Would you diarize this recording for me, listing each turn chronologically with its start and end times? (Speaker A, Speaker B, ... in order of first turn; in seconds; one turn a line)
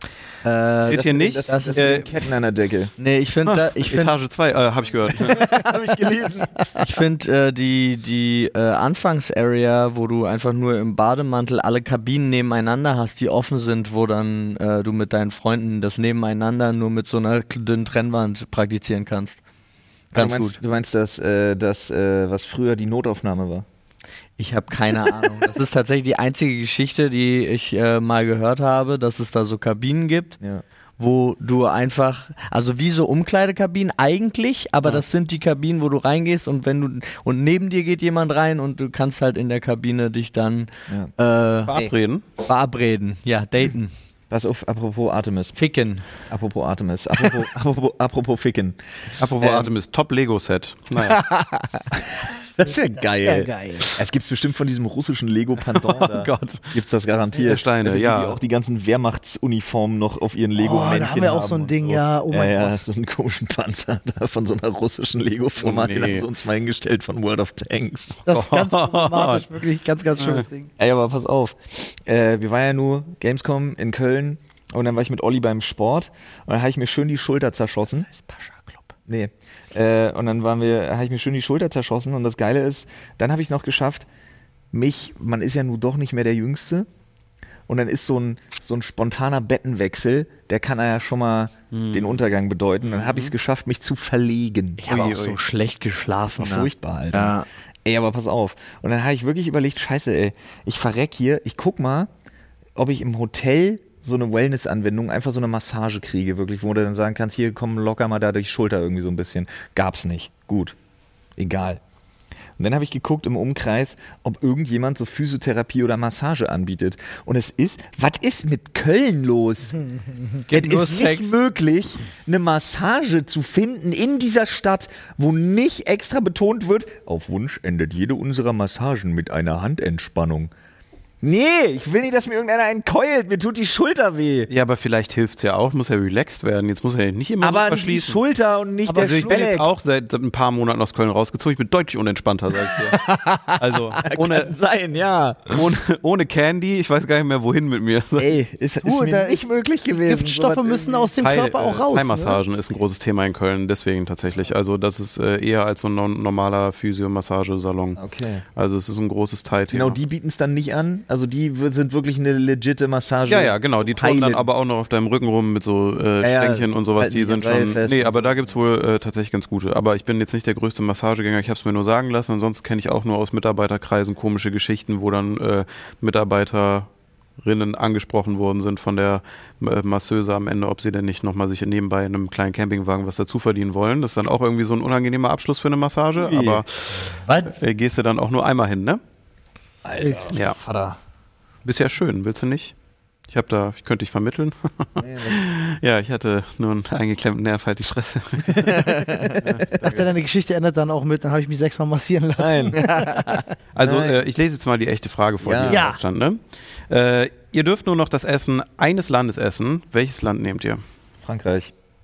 Speaker A: 0.4-2.1
Speaker B: 0.9-2.0
Speaker C: 0.9-2.9
Speaker A: 3.0-4.1
Speaker B: 3.5-5.5
Speaker C: 5.2-6.8
Speaker A: 6.8-19.4
Speaker A: 20.1-20.6
Speaker C: 20.1-23.7
Speaker A: 24.4-30.4
Speaker A: 31.0-41.7
Speaker B: 41.7-42.2
Speaker A: 42.4-43.9
Speaker C: 44.3-45.6
Speaker A: 45.5-46.1
Speaker C: 46.3-48.8
Speaker B: 49.2-51.2
Speaker C: 49.4-49.7
Speaker A: 51.0-52.0
Speaker A: 52.6-54.0
Speaker D: 52.6-53.9
Speaker C: 54.0-68.2
Speaker B: 55.7-56.7
Speaker B: 57.3-58.4
Speaker D: 60.6-62.8
Speaker B: 65.6-66.3
Speaker B: 68.3-69.5
Speaker D: 68.3-70.7
Speaker B: 70.2-70.5
Speaker C: 70.8-78.1
Speaker A: 78.1-78.8
Speaker C: 79.1-84.1
Speaker C: 84.7-86.9
Speaker C: 87.7-95.1
Speaker B: 91.7-92.2
Speaker B: 92.8-93.3
Speaker A: 94.8-97.5
Speaker B: 94.9-95.4
Speaker C: 96.4-102.1
Speaker C: 102.8-110.8
Speaker C: 111.4-111.8
Speaker C: 112.6-119.8
Speaker D: 119.8-120.4
Speaker A: 120.5-121.3
Speaker C: 120.5-130.5
Speaker C: 131.2-134.5
Speaker B: 134.5-138.2
Speaker C: 137.4-139.7
Speaker D: 138.9-139.3
Speaker B: 138.9-143.0
Speaker C: 142.8-145.6
Speaker B: 143.6-144.6
Speaker B: 145.5-148.3
Speaker C: 148.2-151.1
Speaker D: 148.8-152.4
Speaker B: 151.2-158.0
Speaker C: 158.0-158.4
Speaker B: 158.6-160.0
Speaker C: 159.7-164.5
Speaker B: 163.3-176.9
Speaker C: 166.2-168.6
Speaker B: 177.4-189.0
Speaker C: 186.2-186.6
Speaker A: 187.3-187.5
Speaker C: 189.8-191.0
Speaker D: 190.0-190.3
Speaker B: 190.3-190.6
Speaker B: 191.7-192.7
Speaker B: 193.3-199.9
Speaker C: 195.0-195.4
Speaker C: 198.5-200.1
Speaker D: 199.8-203.4
Speaker C: 202.4-204.2
Speaker A: 202.8-203.1
Speaker B: 203.8-210.8
Speaker C: 205.4-205.8
Speaker D: 205.7-206.0
Speaker C: 211.2-211.7